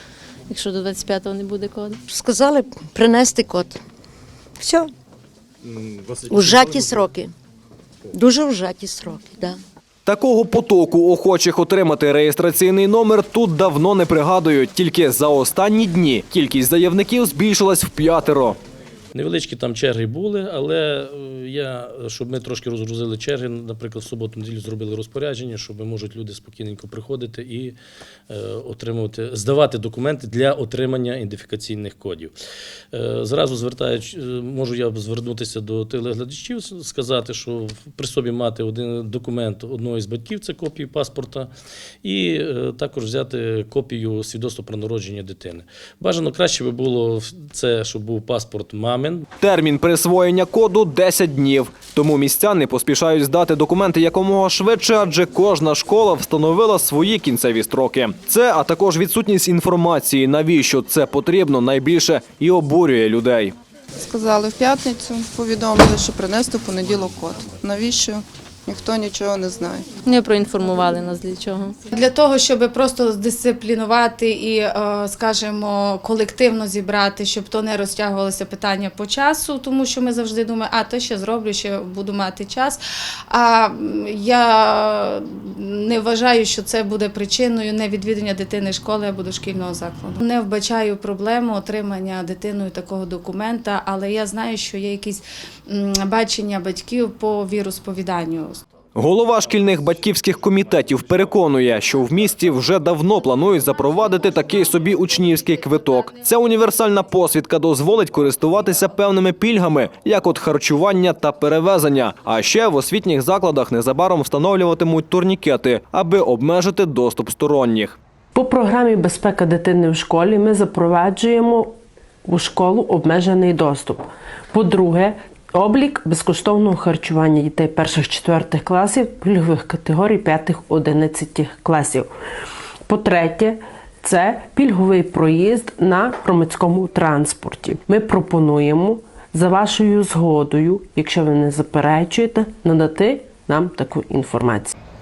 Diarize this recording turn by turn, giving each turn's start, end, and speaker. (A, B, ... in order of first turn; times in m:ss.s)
0:00.5-0:02.0 A
0:02.1-0:03.8 B
0:04.6-0:04.9 B
0:06.1-0:07.3 B
0:08.1-0:09.6 B
0:10.1-0:18.6 C
0:19.2-0:27.8 D
0:28.3-0:32.3 D
0:32.9-0:41.5 D
0:42.0-0:49.3 D
0:49.4-1:03.6 C
1:04.0-1:09.9 E
1:10.0-1:11.8 A
1:11.9-1:38.6 F
1:39.0-1:58.0 C
1:58.4-2:01.7 G
2:02.2-2:12.1 G
2:12.9-2:24.7 G